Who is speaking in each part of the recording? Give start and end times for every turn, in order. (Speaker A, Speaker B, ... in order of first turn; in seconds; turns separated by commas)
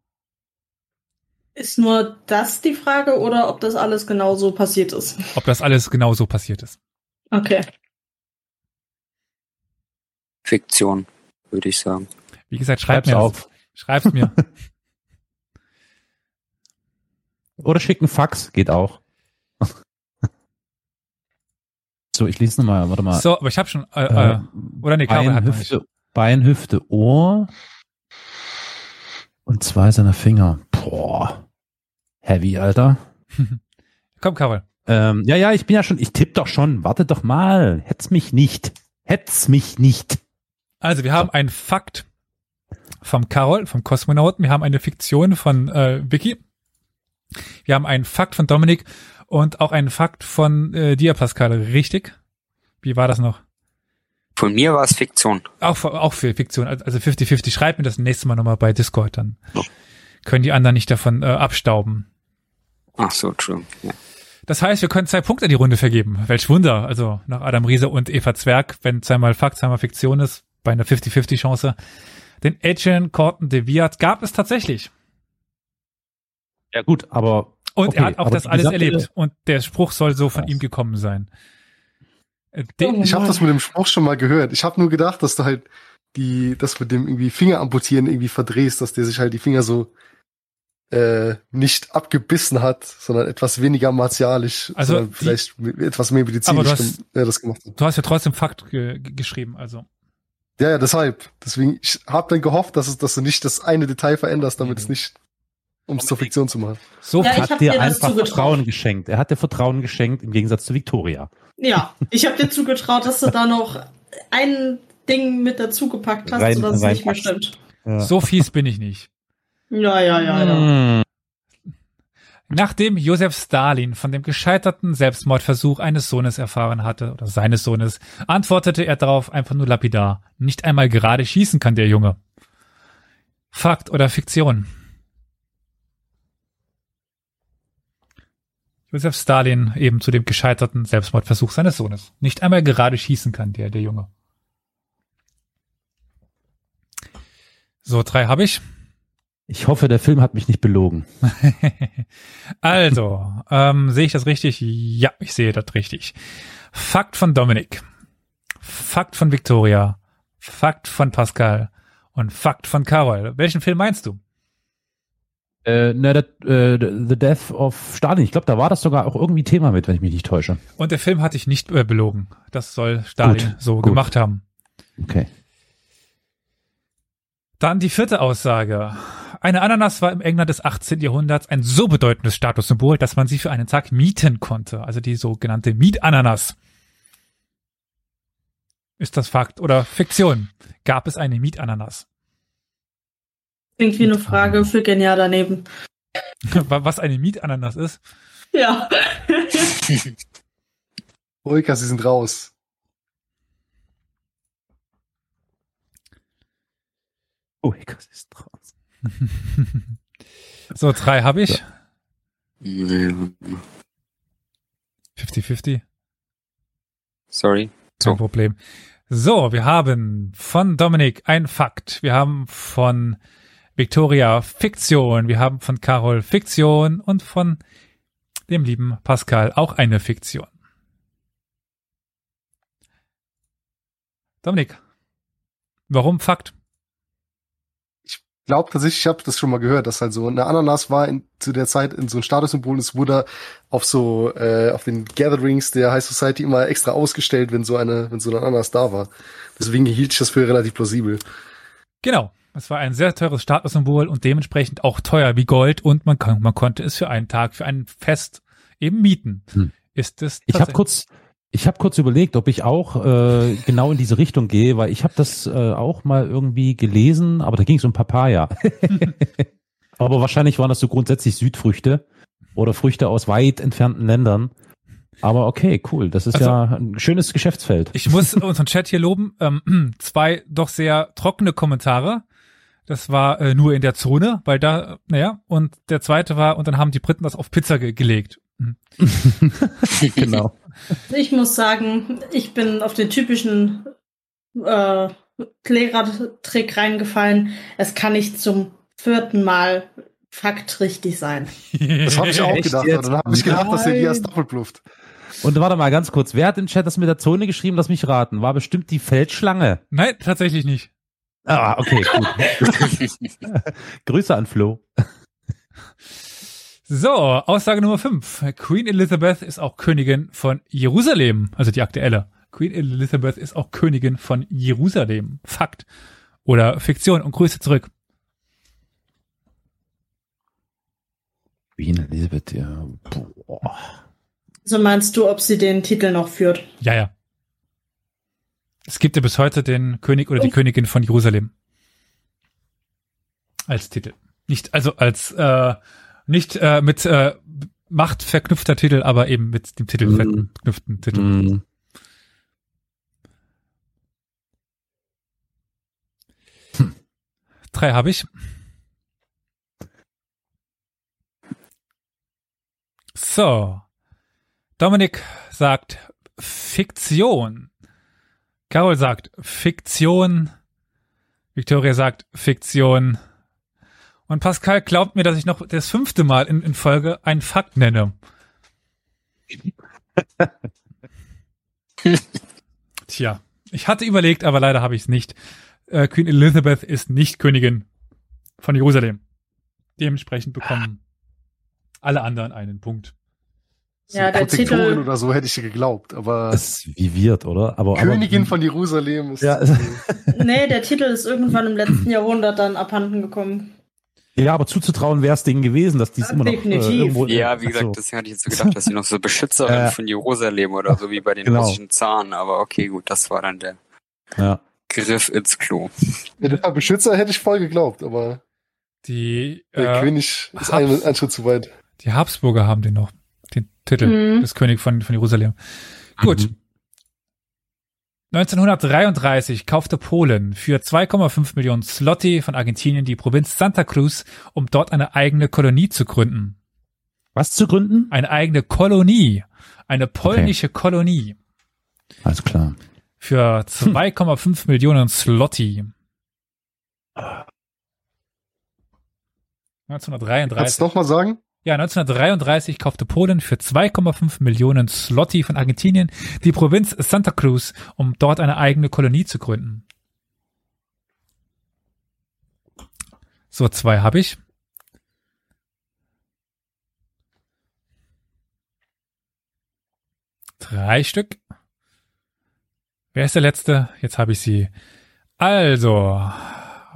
Speaker A: 1.6-5.3, Speaker B: 5.3-6.8, Speaker A: 7.3-7.7, Speaker C: 10.4-12.1, Speaker B: 12.5-14.4, Speaker D: 12.9-13.4, Speaker D: 17.6-19.0, Speaker D: 22.1-23.2, Speaker B: 23.1-25.7, Speaker D: 24.1-27.5, Speaker D: 29.4-31.4, Speaker D: 32.2-33.0, Speaker B: 34.2-34.6, Speaker D: 34.9-40.2, Speaker B: 40.8-42.0, Speaker B: 43.0-46.4, Speaker B: 47.6-52.1, Speaker B: 52.8-53.4, Speaker C: 54.4-55.4, Speaker B: 55.6-59.4, Speaker B: 60.2-62.0, Speaker C: 63.0-63.9, Speaker B: 64.5-71.8, Speaker B: 72.4-74.9, Speaker D: 76.7-79.1, Speaker B: 77.7-81.3, Speaker B: 82.5-83.0, Speaker A: 82.8-83.4, Speaker E: 83.0-89.9, Speaker E: 90.9-97.7, Speaker B: 94.8-95.4, Speaker B: 96.4-97.0, Speaker B: 97.8-99.9, Speaker E: 100.6-105.1, Speaker B: 104.6-104.9, Speaker E: 105.9-106.8, Speaker D: 106.0-106.3, Speaker B: 107.0-107.5, Speaker D: 107.2-111.3, Speaker A: 107.2-108.6, Speaker A: 111.6-117.5, Speaker D: 116.2-117.3, Speaker D: 117.8-118.4, Speaker B: 118.0-119.1, Speaker A: 119.7-120.7, Speaker D: 120.2-121.0, Speaker B: 122.5-132.2, Speaker B: 133.5-134.7, Speaker B: 138.9-144.1, Speaker B: 147.8-148.6, Speaker D: 149.5-151.1, Speaker B: 151.4-152.0, Speaker B: 152.6-156.1, Speaker B: 156.7-157.8, Speaker B: 158.6-164.2, Speaker D: 165.6-170.6, Speaker B: 170.8-174.4, Speaker D: 173.2-174.0, Speaker D: 175.0-175.3, Speaker B: 177.6-186.5, Speaker B: 189.0-192.0, Speaker A: 193.8-195.6, Speaker D: 194.3-194.6, Speaker B: 196.5-198.0, Speaker A: 198.5-199.8, Speaker E: 201.4-202.5, Speaker D: 207.6-208.6, Speaker B: 209.2-209.9, Speaker B: 210.7-211.6, Speaker C: 212.6-213.6, Speaker B: 215.2-215.8, Speaker C: 217.3-218.2, Speaker B: 218.0-218.6, Speaker B: 219.1-223.2, Speaker B: 223.8-227.6, Speaker B: 228.5-230.5, Speaker B: 234.4-234.8, Speaker B: 235.9-236.5, Speaker E: 238.1-251.2, Speaker B: 252.0-260.8, Speaker D: 260.5-269.4, Speaker D: 270.0-272.0, Speaker D: 272.5-274.5, Speaker D: 275.2-278.4, Speaker B: 276.3-276.6, Speaker B: 277.9-282.2, Speaker B: 282.9-288.8, Speaker D: 289.0-290.5, Speaker A: 291.1-293.9, Speaker A: 294.6-301.5, Speaker B: 301.7-302.6, Speaker E: 302.1-304.8, Speaker D: 302.2-303.7, Speaker D: 305.4-309.8, Speaker B: 309.9-310.9, Speaker D: 311.4-314.8, Speaker A: 312.0-312.7, Speaker B: 316.9-325.9, Speaker B: 326.4-327.9, Speaker D: 331.8-333.9, Speaker A: 334.6-336.6, Speaker B: 336.8-337.1, Speaker B: 338.9-341.5, Speaker B: 343.7-351.4, Speaker D: 350.0-350.5, Speaker D: 351.1-351.6, Speaker B: 357.7-358.3, Speaker B: 363.1-363.8, Speaker B: 364.8-367.7, Speaker B: 368.7-370.5, Speaker B: 371.5-373.2, Speaker B: 374.3-378.1, Speaker D: 380.2-380.5, Speaker B: 383.1-385.3, Speaker B: 385.9-387.9, Speaker B: 388.6-389.2, Speaker B: 390.0-391.0, Speaker B: 392.0-393.1, Speaker E: 394.1-396.6, Speaker A: 394.1-395.0, Speaker D: 396.5-398.6, Speaker E: 397.9-400.0, Speaker D: 399.4-400.4, Speaker A: 400.3-403.7, Speaker D: 404.4-408.0, Speaker A: 406.2-407.2, Speaker C: 407.3-413.8, Speaker D: 408.5-408.8, Speaker D: 409.6-409.9, Speaker D: 410.9-411.8, Speaker C: 414.9-415.9, Speaker E: 416.4-418.4, Speaker B: 419.0-421.0, Speaker E: 419.8-421.7, Speaker B: 422.0-425.6, Speaker A: 424.0-424.5, Speaker D: 426.2-426.5, Speaker B: 426.2-426.5, Speaker B: 428.3-436.6, Speaker D: 437.4-438.1, Speaker B: 438.1-441.4, Speaker D: 440.2-440.5, Speaker D: 442.2-442.8, Speaker B: 443.2-445.9, Speaker B: 449.9-450.8, Speaker E: 450.5-451.4, Speaker B: 451.6-459.8, Speaker B: 463.5-464.4, Speaker B: 470.6-471.4, Speaker B: 473.1-474.7, Speaker B: 475.4-476.7